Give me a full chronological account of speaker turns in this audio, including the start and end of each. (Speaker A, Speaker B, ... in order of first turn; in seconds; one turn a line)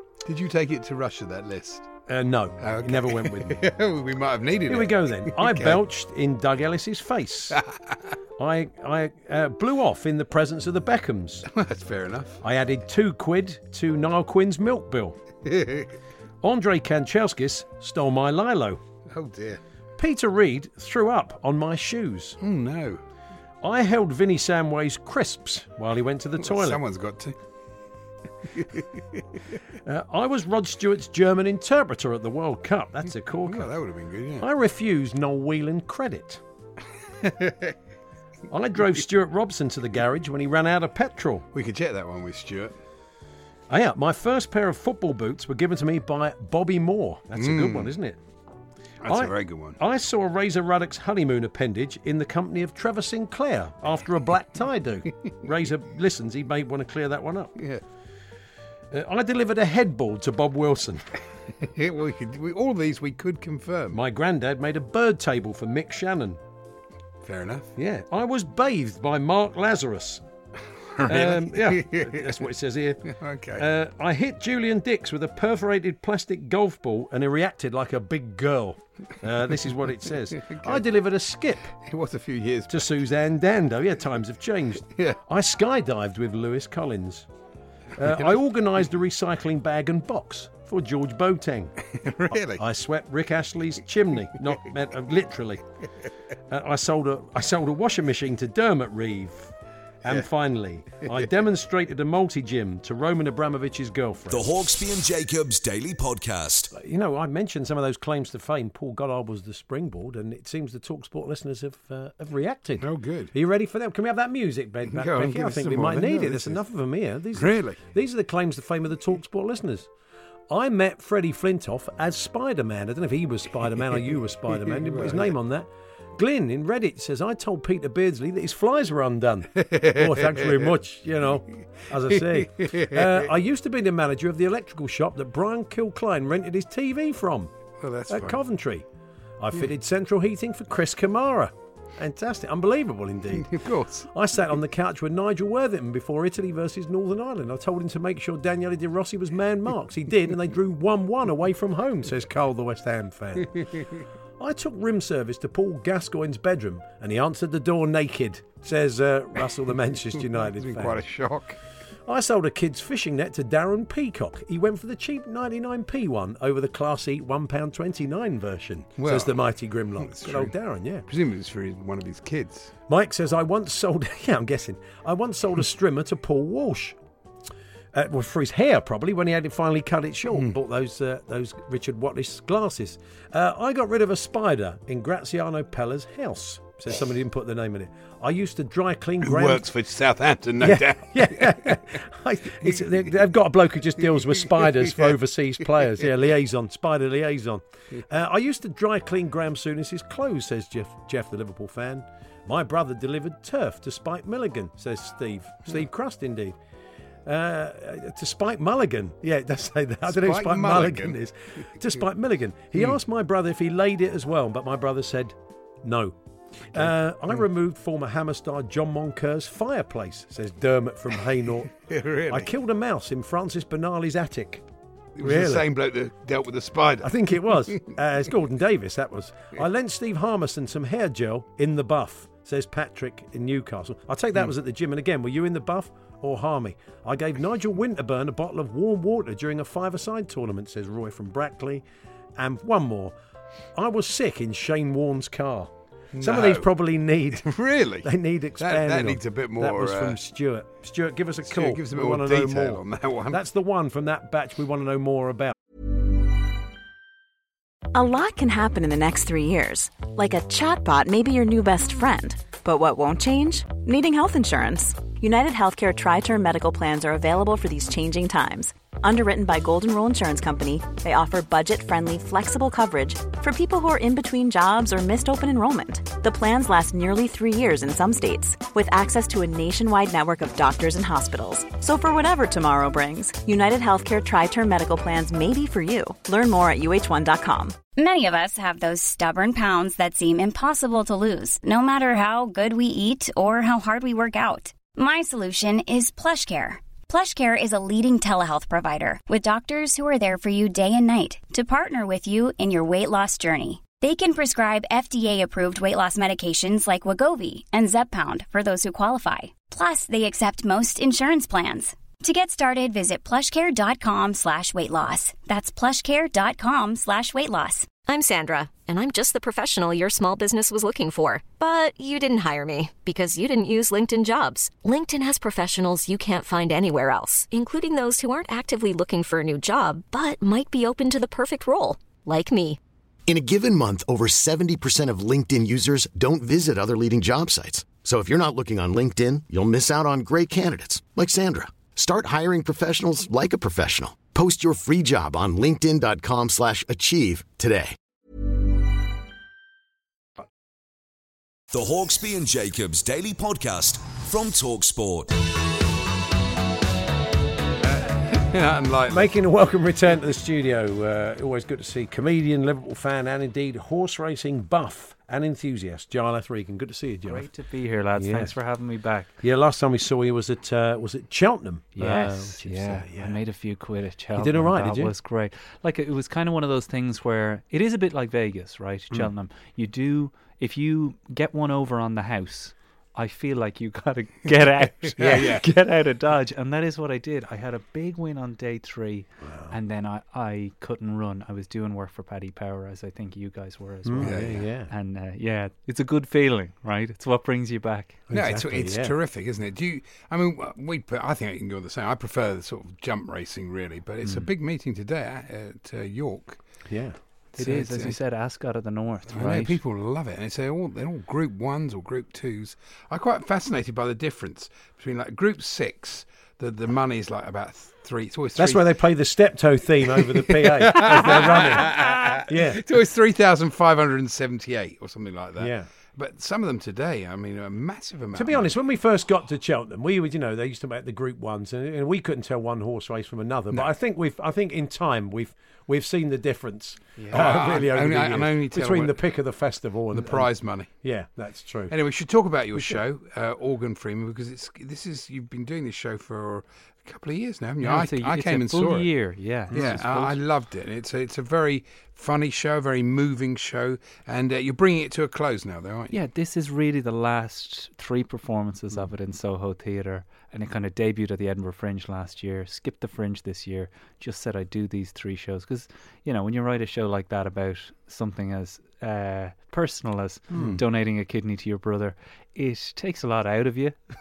Speaker A: 0.2-1.9
Speaker B: 2.1-3.6
Speaker A: 2.6-5.8
Speaker B: 4.7-7.6
Speaker A: 7.6-8.0
Speaker B: 8.4-11.5
Speaker A: 11.5-12.4
Speaker B: 12.4-15.2
Speaker A: 15.4-15.9
Speaker B: 16.4-18.8
Speaker A: 19.1-19.6
Speaker B: 20.0-22.4
Speaker A: 22.4-23.0
Speaker B: 23.6-26.8
Speaker A: 26.4-27.4
Speaker A: 28.5-29.2
Speaker B: 29.9-33.7
Speaker A: 33.4-34.5
Speaker B: 34.4-36.4
Speaker A: 37.2-37.8
Speaker B: 38.5-41.5
Speaker A: 41.5-42.8
Speaker B: 43.7-48.2
Speaker A: 47.4-47.9
Speaker A: 49.0-49.8
Speaker B: 49.1-57.6
Speaker B: 58.9-61.1
Speaker A: 61.6-64.0
Speaker B: 63.9-66.4
Speaker A: 67.2-67.7
Speaker B: 67.8-70.2
Speaker A: 71.0-72.4
Speaker B: 71.1-81.8
Speaker A: 73.1-73.7
Speaker A: 80.4-80.8
Speaker A: 81.8-82.9
Speaker B: 82.7-87.3
Speaker B: 88.0-91.7
Speaker A: 88.0-88.3
Speaker A: 91.9-92.6
Speaker B: 92.5-95.6
Speaker B: 96.5-104.5
Speaker C: 104.3-106.7
Speaker B: 106.7-119.9
Speaker A: 112.8-113.3
Speaker A: 114.9-116.6
Speaker A: 117.3-117.8
Speaker B: 120.5-137.5
Speaker A: 124.6-125.3
Speaker A: 129.6-130.7
Speaker A: 132.2-133.3
Speaker A: 137.8-138.4
Speaker B: 138.1-138.9
Speaker B: 139.4-153.7
Speaker A: 143.4-144.1
Speaker A: 153.5-153.9
Speaker B: 154.4-161.1
Speaker A: 160.4-161.6
Speaker B: 162.1-171.1
Speaker A: 169.0-169.4
Speaker A: 170.0-170.5
Speaker A: 171.1-172.8
Speaker B: 172.9-177.0
Speaker B: 177.9-189.7
Speaker A: 189.2-191.8
Speaker B: 190.6-206.6
Speaker B: 207.2-216.2
Speaker A: 210.1-211.2
Speaker B: 216.7-221.7
Speaker A: 221.8-222.5
Speaker B: 222.3-224.7
Speaker A: 225.2-228.0
Speaker B: 225.2-225.7
Speaker B: 227.0-241.8
Speaker B: 242.4-243.2
Speaker B: 243.7-247.5
Speaker A: 246.1-246.7
Speaker A: 247.3-250.2
Speaker B: 248.0-255.6
Speaker A: 251.5-253.4
Speaker D: 257.9-287.8
Speaker E: 288.0-317.9
Speaker F: 318.1-332.8
Speaker G: 333.3-348.0
Speaker C: 351.7-355.4
Speaker A: 357.8-359.3
Speaker B: 359.1-367.5
Speaker H: 367.3-369.3
Speaker B: 368.2-368.6
Speaker B: 369.4-373.4
Speaker H: 372.0-398.2
Speaker B: 374.4-375.1
Speaker A: 385.2-385.6
Speaker B: 389.4-389.8
Speaker B: 394.1-394.9
Speaker A: 394.2-394.6
Speaker B: 398.3-399.2
Speaker A: 398.3-406.6
Speaker B: 406.9-407.2
Speaker H: 407.6-409.8
Speaker A: 407.6-408.2
Speaker A: 409.3-418.9
Speaker B: 418.6-422.9
Speaker A: 420.2-428.7
Speaker B: 425.6-425.9
Speaker B: 428.4-441.9
Speaker A: 437.2-439.2
Speaker A: 440.1-440.9
Speaker A: 441.9-449.1
Speaker H: 447.8-450.4
Speaker A: 449.7-456.1
Speaker B: 449.7-450.0
Speaker H: 456.1-474.0
Speaker B: 470.5-470.8